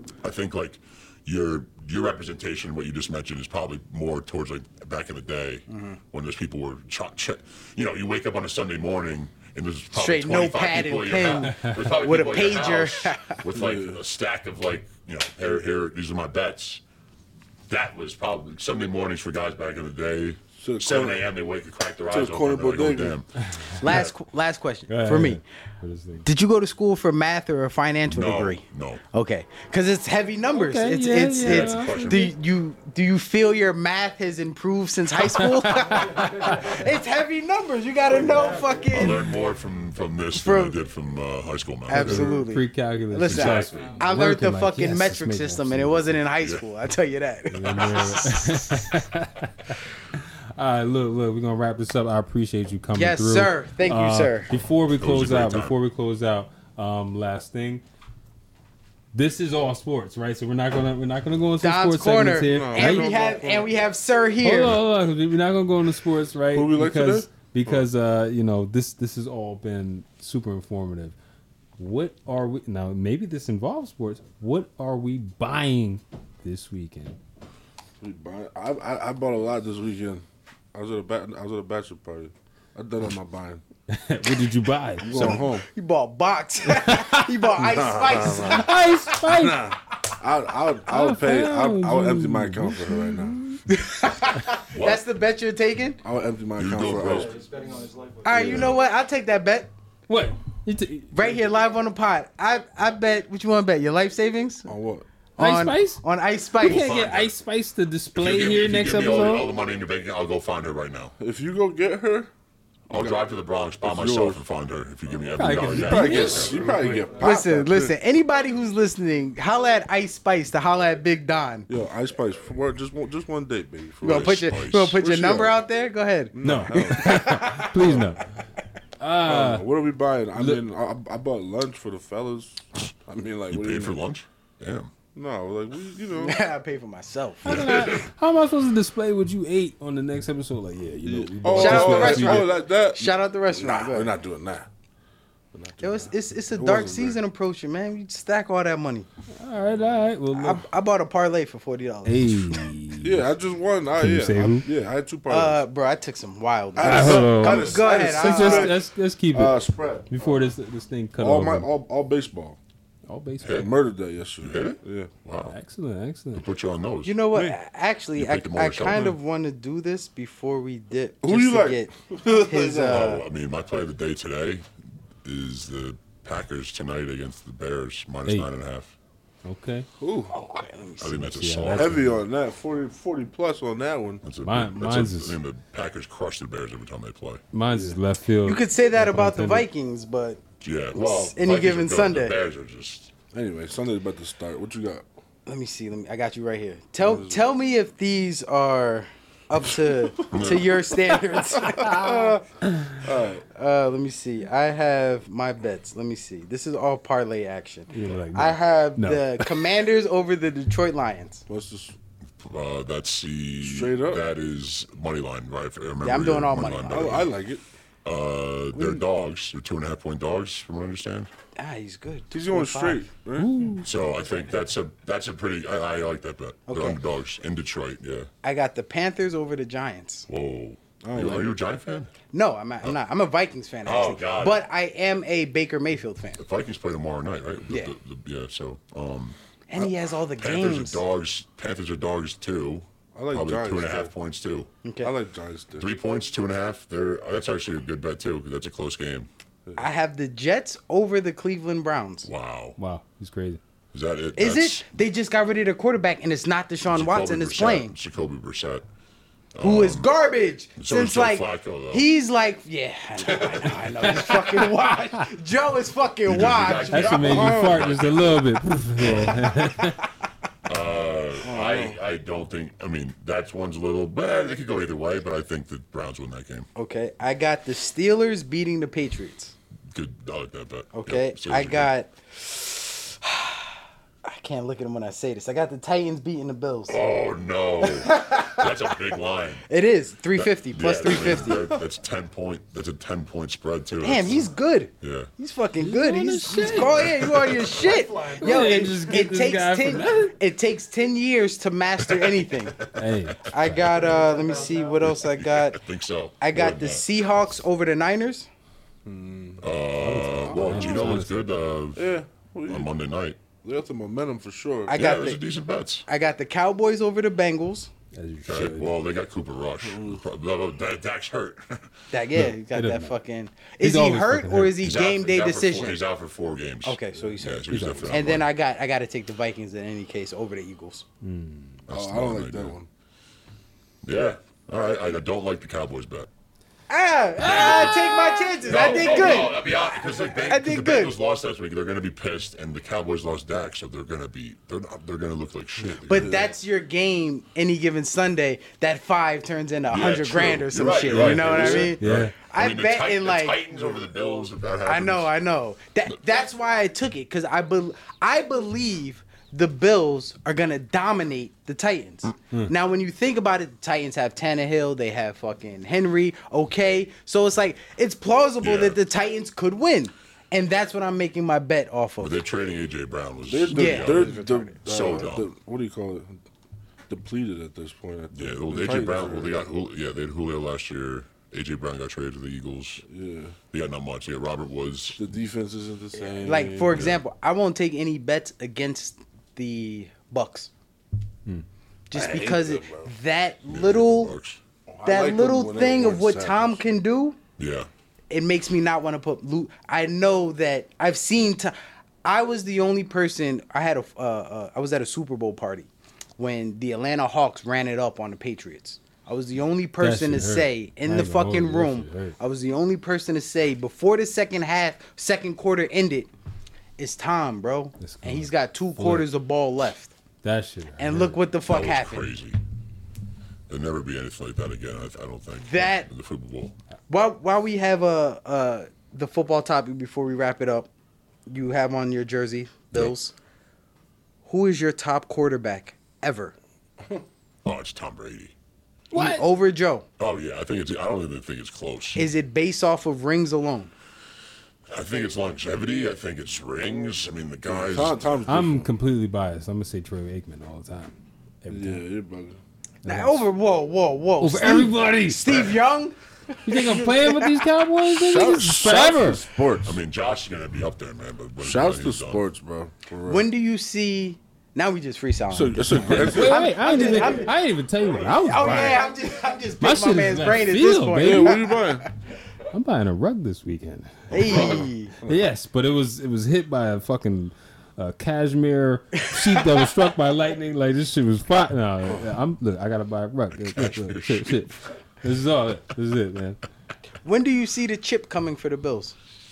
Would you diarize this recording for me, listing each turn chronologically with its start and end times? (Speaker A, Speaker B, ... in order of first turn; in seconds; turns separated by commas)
Speaker A: 0.2-16.8, Speaker B: 5.7-6.0, Speaker B: 9.9-13.4, Speaker C: 13.5-14.0, Speaker A: 17.7-23.3, Speaker C: 20.6-21.3, Speaker C: 22.1-23.2, Speaker D: 23.5-23.8, Speaker B: 23.8-25.4, Speaker D: 24.9-26.3, Speaker B: 26.2-39.3, Speaker A: 28.1-29.0, Speaker D: 30.5-32.3, Speaker A: 31.4-32.3, Speaker D: 35.2-36.7, Speaker A: 38.9-42.4, Speaker B: 40.3-40.7, Speaker B: 41.9-48.8, Speaker D: 41.9-46.2, Speaker A: 43.3-44.0, Speaker E: 43.7-44.0, Speaker A: 46.4-46.6, Speaker D: 47.5-57.8, Speaker B: 52.9-54.5, Speaker A: 54.9-55.7, Speaker D: 59.1-63.1, Speaker B: 61.6-64.8, Speaker C: 62.4-63.7, Speaker D: 64.4-71.1, Speaker C: 66.5-67.8, Speaker D: 71.8-77.2, Speaker C: 78.0-83.6, Speaker D: 83.9-85.4, Speaker C: 85.0-85.7, Speaker B: 85.1-88.9, Speaker D: 86.7-87.3, Speaker C: 87.5-88.7, Speaker D: 88.3-89.7, Speaker C: 89.2-93.4, Speaker D: 90.9-93.6, Speaker B: 93.7-96.0, Speaker A: 94.7-95.0, Speaker C: 96.0-97.3, Speaker A: 96.6-97.4, Speaker E: 96.9-98.7, Speaker B: 98.2-99.7, Speaker C: 98.3-98.7, Speaker D: 100.1-101.3, Speaker B: 101.1-104.7, Speaker C: 104.7-105.0, Speaker B: 105.4-106.9, Speaker D: 105.4-106.0, Speaker A: 106.6-107.3, Speaker D: 106.6-109.5, Speaker A: 108.1-111.1, Speaker C: 111.2-112.3, Speaker C: 112.9-113.2, Speaker A: 112.9-116.6, Speaker C: 113.8-114.4, Speaker D: 115.4-116.9, Speaker C: 115.6-117.9, Speaker E: 116.3-117.3, Speaker B: 117.2-121.7, Speaker C: 121.7-124.4, Speaker A: 124.0-125.0, Speaker B: 124.0-128.0, Speaker C: 125.0-125.6, Speaker C: 126.3-127.4, Speaker D: 126.4-128.2, Speaker D: 129.0-129.7, Speaker C: 129.2-134.0, Speaker D: 130.3-130.6, Speaker A: 133.5-134.9, Speaker C: 135.1-136.4, Speaker B: 136.2-137.6, Speaker A: 137.4-138.1, Speaker D: 137.4-142.5, Speaker C: 141.0-144.7, Speaker B: 141.5-144.1, Speaker C: 145.5-147.2, Speaker B: 145.8-149.1, Speaker D: 149.4-150.6, Speaker B: 150.3-152.7, Speaker D: 152.0-153.3, Speaker C: 153.0-155.6, Speaker D: 154.0-154.7, Speaker B: 155.3-158.8, Speaker C: 156.7-160.5, Speaker D: 156.8-161.7, Speaker C: 161.2-162.6, Speaker D: 163.1-163.7, Speaker A: 163.4-163.7, Speaker C: 163.5-165.1, Speaker A: 164.4-165.6, Speaker D: 165.4-166.4, Speaker A: 166.3-167.2, Speaker B: 167.0-173.2, Speaker A: 168.2-169.2, Speaker C: 171.2-173.2, Speaker A: 172.8-178.9, Speaker D: 179.4-179.9, Speaker C: 180.0-180.3, Speaker B: 180.3-181.2, Speaker A: 181.0-182.2, Speaker D: 181.3-181.9, Speaker C: 181.7-184.2, Speaker A: 184.2-187.4, Speaker D: 184.4-185.4, Speaker D: 187.5-189.7, Speaker C: 187.7-188.0, Speaker B: 188.4-190.4, Speaker A: 190.6-193.1, Speaker B: 190.9-192.4, Speaker C: 193.3-195.1, Speaker B: 195.4-202.4, Speaker C: 197.0-197.4, Speaker C: 199.9-202.3, Speaker A: 200.3-200.7, Speaker D: 202.6-203.0, Speaker C: 203.0-203.4, Speaker B: 203.5-211.4, Speaker D: 207.9-209.4, Speaker C: 211.5-211.9, Speaker A: 212.4-217.3, Speaker C: 213.6-214.2, Speaker B: 216.0-217.3, Speaker C: 216.9-217.6, Speaker A: 218.0-221.3, Speaker B: 218.7-219.0, Speaker B: 221.6-223.1, Speaker C: 222.3-223.5, Speaker D: 223.3-223.9, Speaker A: 223.8-228.3, Speaker B: 226.7-227.0, Speaker B: 228.4-230.3, Speaker A: 230.3-232.1, Speaker C: 231.0-231.6, Speaker B: 232.3-236.4, Speaker A: 233.8-234.6, Speaker A: 236.4-244.7, Speaker B: 239.7-241.0, Speaker C: 243.1-244.1, Speaker B: 244.8-245.1, Speaker C: 245.0-245.9, Speaker A: 245.8-249.3, Speaker B: 249.8-252.3, Speaker A: 252.2-252.8, Speaker D: 252.8-253.6, Speaker A: 253.9-254.8, Speaker B: 254.3-257.9, Speaker A: 256.9-258.8, Speaker A: 259.5-260.1, Speaker B: 259.6-267.6, Speaker A: 260.8-262.1, Speaker A: 266.2-269.7, Speaker D: 266.9-270.1, Speaker C: 267.1-267.8, Speaker A: 270.6-276.7, Speaker C: 271.4-272.0, Speaker B: 276.7-279.5, Speaker A: 279.9-281.9, Speaker B: 280.9-287.0, Speaker A: 286.9-289.6, Speaker B: 287.8-288.9, Speaker B: 289.7-291.8, Speaker A: 290.3-294.5, Speaker B: 294.0-302.9, Speaker A: 295.0-295.3, Speaker D: 295.8-297.2, Speaker A: 296.9-297.8, Speaker E: 297.9-298.6, Speaker D: 298.3-300.4, Speaker D: 302.9-304.1, Speaker B: 303.4-305.8, Speaker A: 303.7-304.1, Speaker E: 304.1-305.1, Speaker A: 305.0-307.5, Speaker B: 306.4-308.5, Speaker C: 309.0-309.7, Speaker A: 309.6-312.1, Speaker D: 310.0-311.4, Speaker C: 310.2-311.2, Speaker C: 311.9-312.9, Speaker A: 312.6-313.4, Speaker C: 313.6-314.9, Speaker B: 314.9-315.4, Speaker A: 314.9-316.1, Speaker B: 316.1-317.9, Speaker D: 318.1-318.9, Speaker A: 318.4-321.9, Speaker C: 318.5-318.8, Speaker C: 319.8-320.2, Speaker B: 322.1-326.0, Speaker D: 322.3-323.1, Speaker D: 323.8-324.9, Speaker A: 324.8-328.5, Speaker B: 326.8-331.1, Speaker D: 327.7-328.1, Speaker D: 331.2-331.8, Speaker A: 331.9-332.8, Speaker C: 331.9-332.9, Speaker A: 334.0-336.3, Speaker B: 336.9-341.1, Speaker A: 337.4-346.5, Speaker C: 338.7-339.2, Speaker C: 346.0-346.5, Speaker B: 346.1-353.6, Speaker A: 349.9-355.3, Speaker C: 351.1-351.9, Speaker D: 352.0-352.3, Speaker B: 354.9-372.4, Speaker A: 368.6-369.0, Speaker A: 372.2-374.3, Speaker C: 373.5-376.4, Speaker B: 373.7-374.8, Speaker A: 374.8-375.5, Speaker C: 377.1-379.6, Speaker A: 378.3-383.0, Speaker C: 383.1-383.5, Speaker A: 383.7-385.2, Speaker C: 385.2-387.1, Speaker B: 386.4-390.7, Speaker A: 386.9-387.2, Speaker B: 392.1-394.3, Speaker C: 392.1-393.1, Speaker A: 393.7-394.6, Speaker C: 394.9-396.8, Speaker B: 395.0-397.4, Speaker A: 397.6-397.9, Speaker B: 398.3-416.3, Speaker D: 410.0-412.4, Speaker B: 417.0-420.1, Speaker D: 418.0-419.3, Speaker D: 420.4-421.4, Speaker B: 421.0-422.2, Speaker A: 421.7-422.6, Speaker A: 423.7-426.7, Speaker B: 425.6-426.1, Speaker B: 427.1-430.9, Speaker B: 431.5-433.3, Speaker A: 432.9-433.2, Speaker B: 434.4-436.5, Speaker A: 437.6-438.5, Speaker B: 439.1-440.1, Speaker D: 439.1-439.5, Speaker A: 440.2-442.3, Speaker B: 442.1-443.9, Speaker A: 444.9-448.3, Speaker C: 447.7-448.9, Speaker D: 448.5-452.0, Speaker C: 451.7-452.6, Speaker B: 453.0-456.1, Speaker D: 453.0-453.4, Speaker D: 454.4-455.7, Speaker D: 456.6-459.4, Speaker B: 456.7-457.6, Speaker C: 458.1-460.0, Speaker A: 459.8-462.4, Speaker C: 461.6-463.5, Speaker B: 463.3-467.5, Speaker C: 465.5-466.7, Speaker D: 466.0-469.0, Speaker B: 468.2-472.1, Speaker D: 469.8-471.6, Speaker C: 471.2-472.1, Speaker D: 472.7-474.6, Speaker A: 474.3-474.9, Speaker B: 474.3-475.1, Speaker C: 474.4-475.4, Speaker D: 475.2-486.6, Speaker B: 479.2-479.8, Speaker A: 483.5-484.7, Speaker B: 487.2-489.1